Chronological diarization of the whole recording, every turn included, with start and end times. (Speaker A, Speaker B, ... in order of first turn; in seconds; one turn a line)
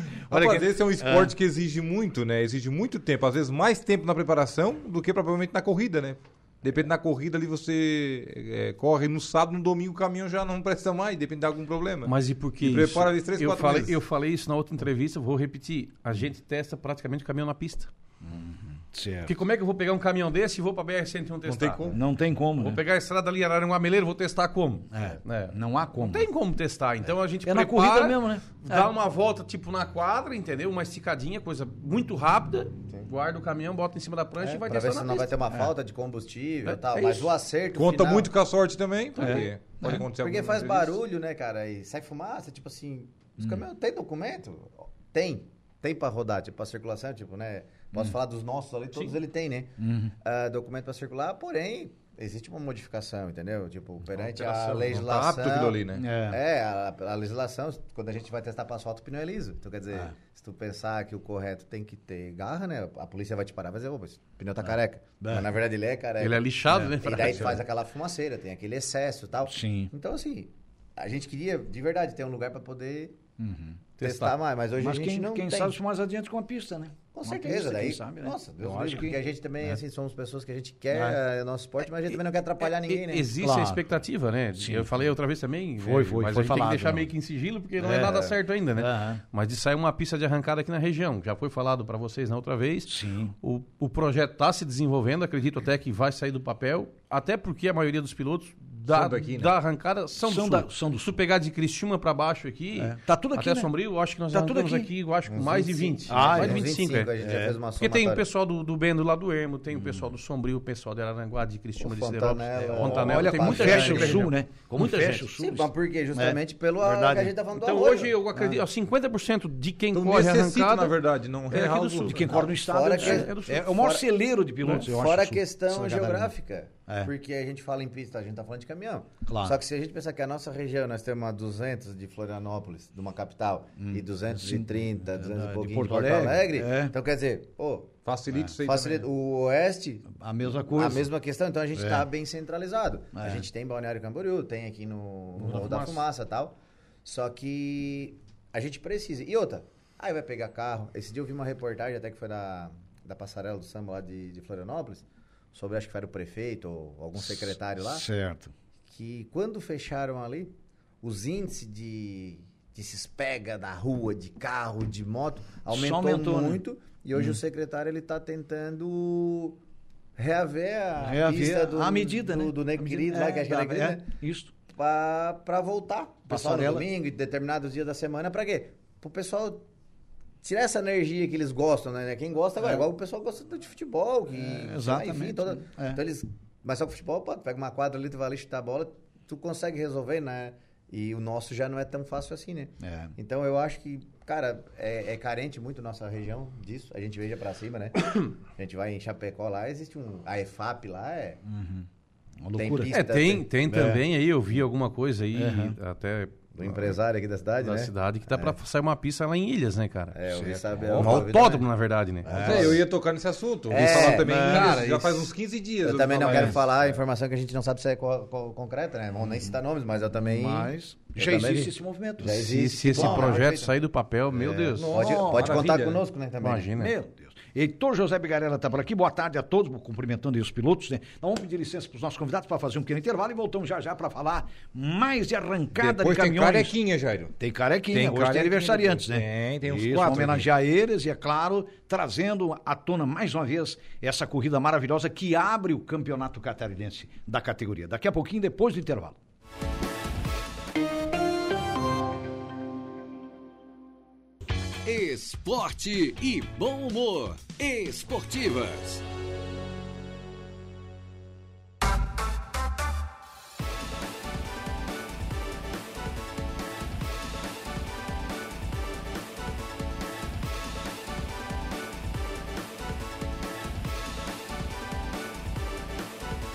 Speaker A: 0.3-1.3
Speaker B: 0.3-13.9
Speaker C: 12.0-17.9
Speaker A: 18.2-19.3
Speaker C: 19.2-21.9
Speaker B: 21.4-22.0
Speaker A: 21.9-22.8
Speaker C: 22.6-35.3
Speaker A: 24.9-26.3
Speaker A: 27.4-28.9
Speaker D: 34.6-38.3
Speaker C: 36.6-37.3
Speaker B: 37.8-41.0
Speaker C: 39.1-39.5
Speaker A: 39.2-40.0
Speaker D: 39.8-73.2
Speaker A: 49.8-50.1
Speaker B: 54.4-56.0
Speaker A: 56.0-56.4
Speaker A: 65.2-65.5
Speaker C: 66.2-67.6
Speaker A: 66.7-67.6
Speaker A: 69.5-69.9
Speaker A: 73.4-79.8
Speaker D: 74.0-75.8
Speaker D: 77.1-83.3
Speaker A: 80.9-81.2
Speaker C: 82.6-107.1
Speaker A: 83.4-83.8
Speaker A: 84.6-85.1
Speaker A: 85.8-87.1
Speaker A: 87.8-89.2
Speaker D: 88.0-88.3
Speaker A: 92.9-93.3
Speaker B: 98.9-99.5
Speaker A: 100.2-101.2
Speaker A: 102.8-103.7
Speaker A: 104.3-104.9
Speaker D: 105.3-108.2
Speaker A: 106.1-106.7
Speaker A: 107.2-107.5
Speaker C: 107.8-115.2
Speaker A: 109.7-110.1
Speaker D: 111.8-114.3
Speaker A: 112.7-117.3
Speaker D: 115.4-118.1
Speaker C: 117.5-121.0
Speaker A: 118.3-118.6
Speaker B: 119.9-122.2
Speaker C: 121.5-122.2
Speaker A: 122.1-126.3
Speaker D: 122.3-124.1
Speaker C: 122.9-123.7
Speaker D: 124.7-138.0
Speaker A: 129.3-129.6
Speaker A: 133.8-136.9
Speaker B: 138.0-139.1
Speaker A: 138.3-138.5
Speaker D: 138.6-140.1
Speaker A: 140.1-141.1
Speaker D: 140.7-158.1
Speaker A: 141.8-142.0
Speaker A: 143.1-143.4
Speaker A: 145.4-145.9
Speaker A: 157.8-158.5
Speaker D: 158.9-169.6
Speaker A: 165.7-166.6
Speaker D: 170.2-174.1
Speaker A: 171.0-174.5
Speaker D: 174.7-179.7
Speaker A: 176.3-176.9
Speaker D: 180.4-201.4
Speaker A: 184.3-186.0
Speaker A: 192.8-193.1
Speaker A: 201.4-201.9
Speaker A: 202.4-202.9
Speaker D: 202.5-203.5
Speaker C: 202.9-206.8
Speaker A: 203.7-204.0
Speaker A: 205.3-205.8
Speaker D: 206.5-208.6
Speaker C: 207.6-210.2
Speaker D: 210.1-211.7
Speaker A: 210.3-210.8
Speaker B: 210.9-211.2
Speaker C: 210.9-212.6
Speaker D: 212.2-212.8
Speaker A: 212.2-212.8
Speaker B: 212.4-216.7
Speaker D: 213.7-215.3
Speaker A: 213.8-214.8
Speaker D: 215.8-223.7
Speaker A: 216.3-216.5
Speaker A: 220.2-223.4
Speaker C: 222.3-224.9
Speaker D: 224.3-226.7
Speaker A: 224.8-225.7
Speaker B: 225.3-226.0
Speaker C: 226.4-226.9
Speaker A: 226.8-236.8
Speaker B: 235.8-237.3
Speaker A: 237.4-249.2
Speaker B: 237.9-240.5
Speaker E: 254.8-259.0